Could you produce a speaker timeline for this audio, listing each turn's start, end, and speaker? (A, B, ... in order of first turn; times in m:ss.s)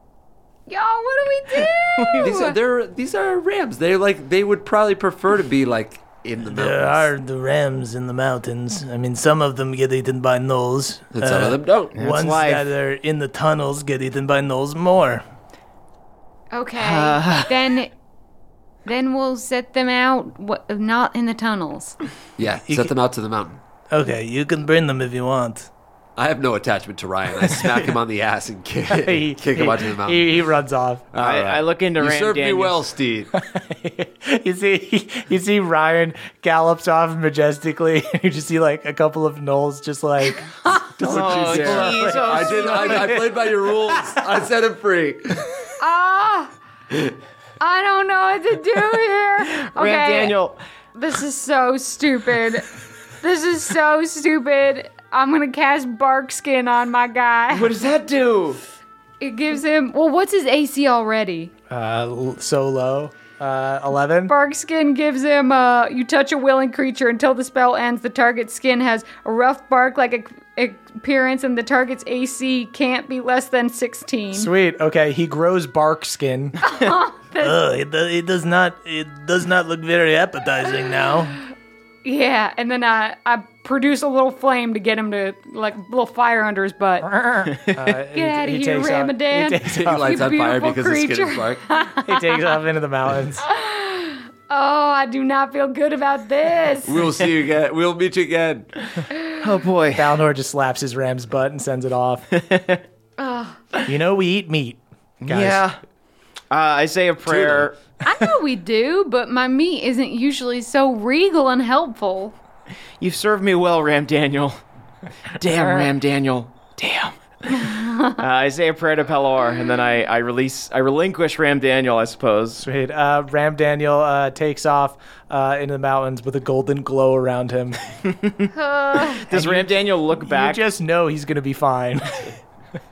0:00.7-0:02.6 A
0:01.6-0:02.4 B
0:02.2-0:07.1 C
0:06.4-0:15.2 D
0:11.1-0:11.9 C
0:11.9-0:12.7 B
0:16.5-0:17.9 A
0:16.8-0:17.6 B
0:18.8-0:22.0 A
0:22.4-0:23.6 C
0:23.9-0:25.7 D
0:26.2-0:30.3 C
0:28.9-0:31.1 E
0:31.1-0:33.3 C
0:31.2-0:32.8 B
0:33.3-0:44.2 E
0:41.0-0:43.1 B
0:41.0-0:45.4 C
0:45.8-0:46.5 A
0:47.6-0:50.4 A
0:49.6-0:50.6 B
0:50.9-0:52.7 A
0:53.2-0:57.7 A
0:57.5-0:58.6 B
0:59.2-1:01.5 A
1:01.7-1:04.3 E
1:04.3-1:14.5 A
1:14.3-1:16.6 E
1:16.6-1:17.6 A
1:17.4-1:21.3 D
1:22.0-1:27.1 A
1:27.0-1:30.2 E
1:28.1-1:32.5 A
1:29.6-1:31.6 C
1:32.0-1:33.4 E
1:33.4-1:37.0 A
1:36.8-1:38.8 C
1:39.1-1:39.4 A
1:39.4-1:40.2 B
1:39.9-1:42.4 E
1:42.4-1:42.8 B
1:43.2-1:43.6 A
1:43.8-1:45.6 E
1:45.2-1:45.8 B
1:46.5-1:47.8 B
1:47.2-1:47.7 C
1:48.0-1:52.4 A
1:53.0-1:54.6 B
1:55.4-2:02.6 B
1:57.6-1:58.1 A
2:02.6-2:07.9 E
2:08.0-2:08.5 B
2:08.5-2:09.2 A
2:09.0-2:10.6 B
2:09.3-2:12.4 E